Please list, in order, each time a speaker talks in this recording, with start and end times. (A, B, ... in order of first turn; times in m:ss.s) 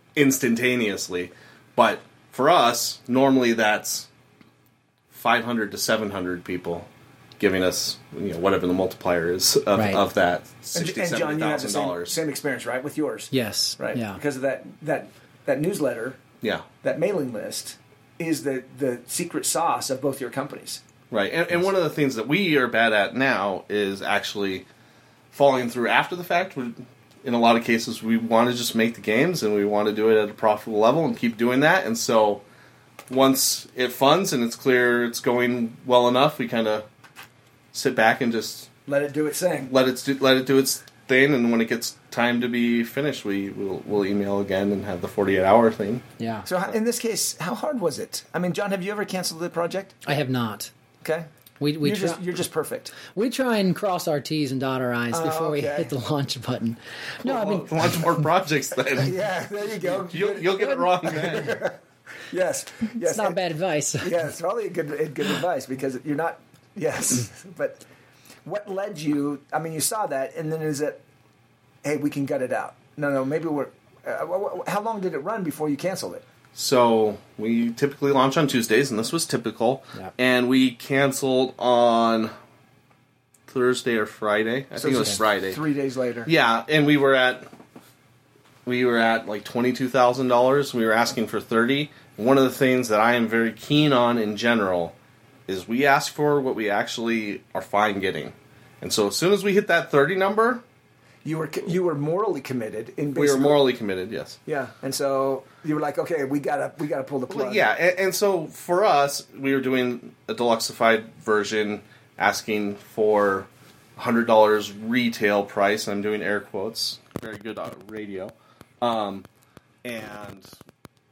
0:00.2-0:04.1 A
0:05.1-0:12.2 A
0:09.8-0:10.0 B
0:10.8-0:16.2 C
0:13.3-0:14.2 B
0:16.8-0:20.8 C
0:21.1-0:24.7 A
0:25.3-0:32.4 A
0:33.1-0:36.9 A
0:37.7-0:38.7 A
0:38.9-0:39.8 C
0:39.7-0:46.0 A
0:46.2-0:46.5 B
0:46.4-0:50.0 C
0:50.1-0:50.7 B
0:51.0-0:51.3 C
0:51.6-0:52.2 B
0:51.8-0:53.0 C
0:53.1-0:58.2 B
0:55.1-0:55.9 C
0:57.2-0:59.2 A
0:59.0-1:01.8 C
0:59.8-1:01.6 A
1:02.3-1:03.4 C
1:03.0-1:04.1 B
1:04.0-1:07.8 C
1:08.4-1:11.0 C
1:11.8-1:16.2 C
1:16.6-1:22.3 A
1:23.5-1:25.6 A
1:24.8-1:26.3 C
1:26.3-1:27.5 A
1:28.7-1:35.0 A
1:35.5-1:40.6 A
1:41.2-1:43.7 C
1:43.2-1:44.4 A
1:44.5-1:47.6 C
1:47.3-1:59.3 A
1:59.8-2:00.5 A